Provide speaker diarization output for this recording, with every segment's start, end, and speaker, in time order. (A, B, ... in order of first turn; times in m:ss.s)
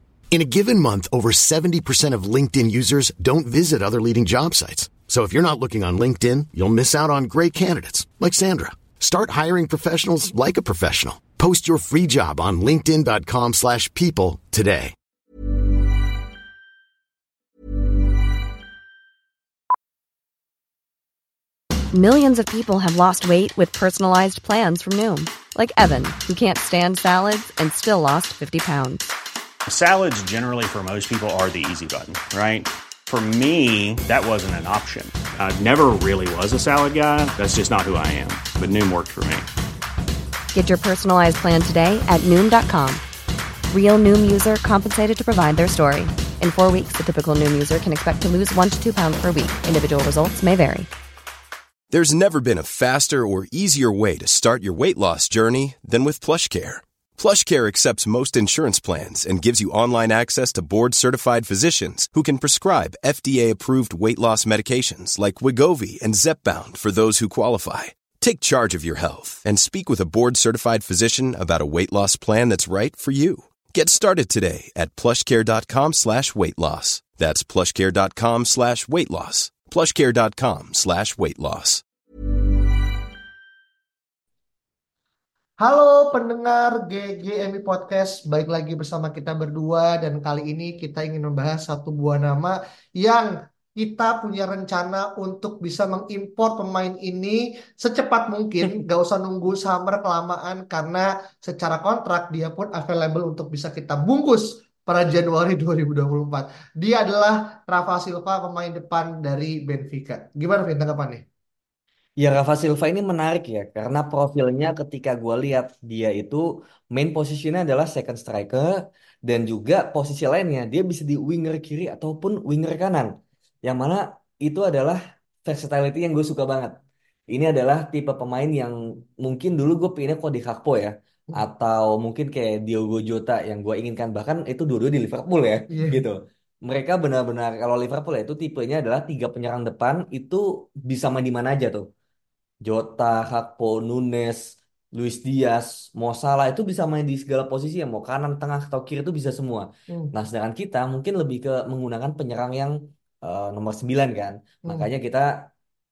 0:00.3-0:14.9 A
0:21.9-0:29.1 B
0:29.6-0:39.5 C
0:40.5-0:43.0 B
0:43.7-0:50.9 B
0:51.9-1:21.8 D
1:25.6-1:51.2 E
1:52.2-2:03.1 F
2:03.6-2:06.8 F
2:07.3-2:21.8 F
2:15.7-2:16.0 E
2:22.6-2:24.4 F
2:24.9-2:35.3 F